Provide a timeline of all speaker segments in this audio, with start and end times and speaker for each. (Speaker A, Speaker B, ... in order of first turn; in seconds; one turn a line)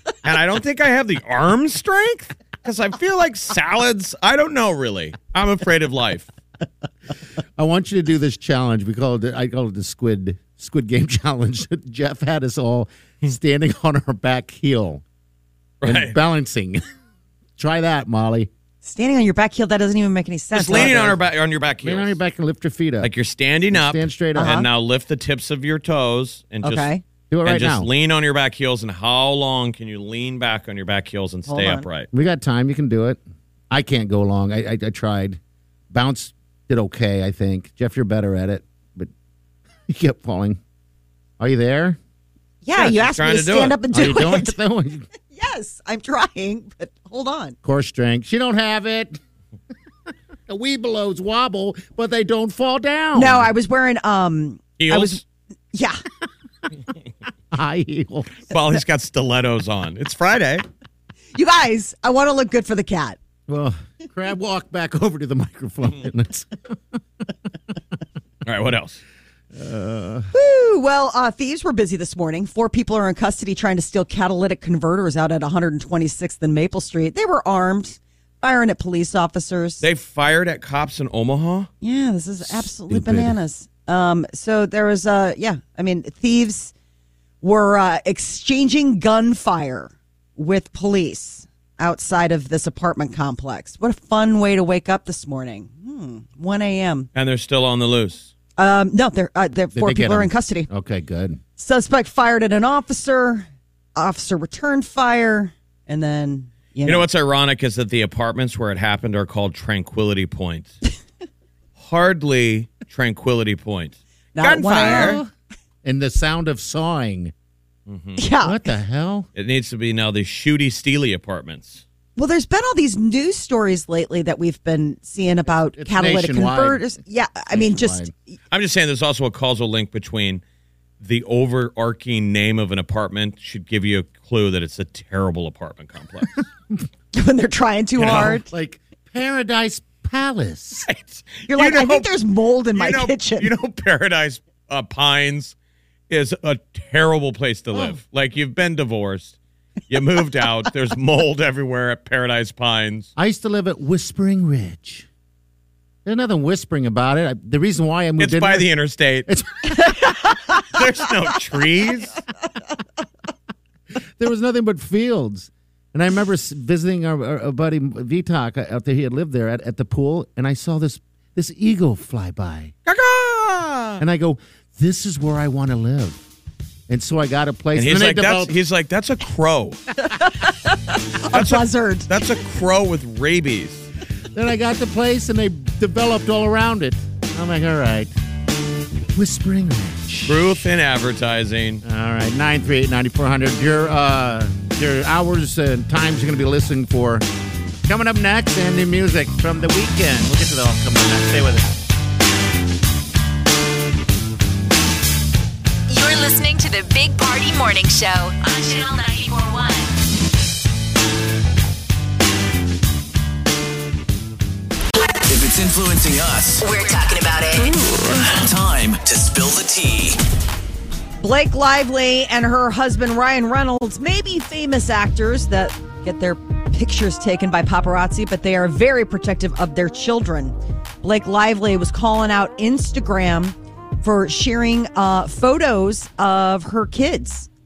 Speaker A: 0.2-6.3
Speaker B: 7.6-15.0
Speaker A: 15.8-16.1
Speaker B: 15.8-16.8
Speaker B: 17.6-18.5
Speaker C: 18.8-21.1
Speaker A: 20.5-22.2
Speaker B: 20.7-21.2
Speaker B: 21.8-23.1
Speaker A: 23.0-26.9
Speaker B: 23.7-24.6
Speaker C: 24.3-24.6
Speaker C: 26.6-27.0
Speaker B: 27.3-27.9
Speaker A: 27.4-32.1
Speaker C: 31.5-31.9
Speaker B: 32.1-33.2
Speaker B: 33.7-35.4
Speaker B: 35.9-39.1
Speaker B: 39.9-40.6
Speaker B: 41.4-42.0
Speaker C: 42.6-44.6
Speaker A: 42.8-43.8
Speaker B: 43.9-45.1
Speaker C: 45.3-47.5
Speaker B: 47.6-49.2
Speaker B: 50.5-53.5
Speaker C: 53.1-55.2
Speaker A: 54.8-55.2
Speaker C: 55.7-56.0
Speaker B: 57.5-58.4
Speaker A: 58.5-60.6
Speaker C: 61.3-63.2
Speaker B: 63.5-66.9
Speaker A: 68.4-69.0
Speaker B: 69.5-70.3
Speaker C: 70.3-79.8
Speaker A: 79.8-81.7
Speaker C: 81.8-86.7
Speaker B: 82.5-83.4
Speaker C: 87.4-97.1
Speaker A: 97.1-98.3
Speaker C: 98.6-100.7
Speaker B: 99.7-101.4
Speaker C: 101.6-107.1
Speaker A: 106.8-110.8
Speaker A: 111.8-115.2
Speaker C: 114.3-115.2
Speaker B: 114.7-115.3
Speaker B: 115.8-117.3
Speaker A: 117.9-118.2
Speaker C: 118.2-118.6
Speaker B: 118.4-119.3
Speaker A: 119.3-121.8
Speaker C: 122.2-128.1
Speaker B: 125.7-126.9
Speaker B: 127.5-128.1
Speaker A: 128.5-130.4
Speaker A: 131.0-136.4
Speaker C: 137.1-138.5
Speaker A: 138.0-138.4
Speaker B: 138.1-140.9
Speaker A: 140.9-142.1
Speaker C: 141.5-143.5
Speaker A: 142.7-145.5
Speaker A: 146.1-149.3
Speaker A: 149.9-153.1
Speaker B: 153.2-155.1
Speaker B: 156.0-158.7
Speaker A: 158.2-159.3
Speaker B: 159.3-159.8
Speaker A: 160.6-162.2
Speaker B: 164.2-172.7
Speaker A: 172.8-174.0
Speaker B: 174.0-176.2
Speaker B: 176.9-178.5
Speaker A: 177.7-179.8
Speaker C: 180.1-182.1
Speaker A: 181.3-183.9
Speaker B: 184.3-188.1
Speaker B: 189.1-190.6
Speaker A: 190.2-191.8
Speaker B: 191.8-197.2
Speaker B: 197.8-201.7
Speaker D: 205.9-209.9
Speaker E: 215.3-216.7
Speaker D: 216.6-217.8
Speaker E: 218.1-220.2
Speaker C: 221.2-237.5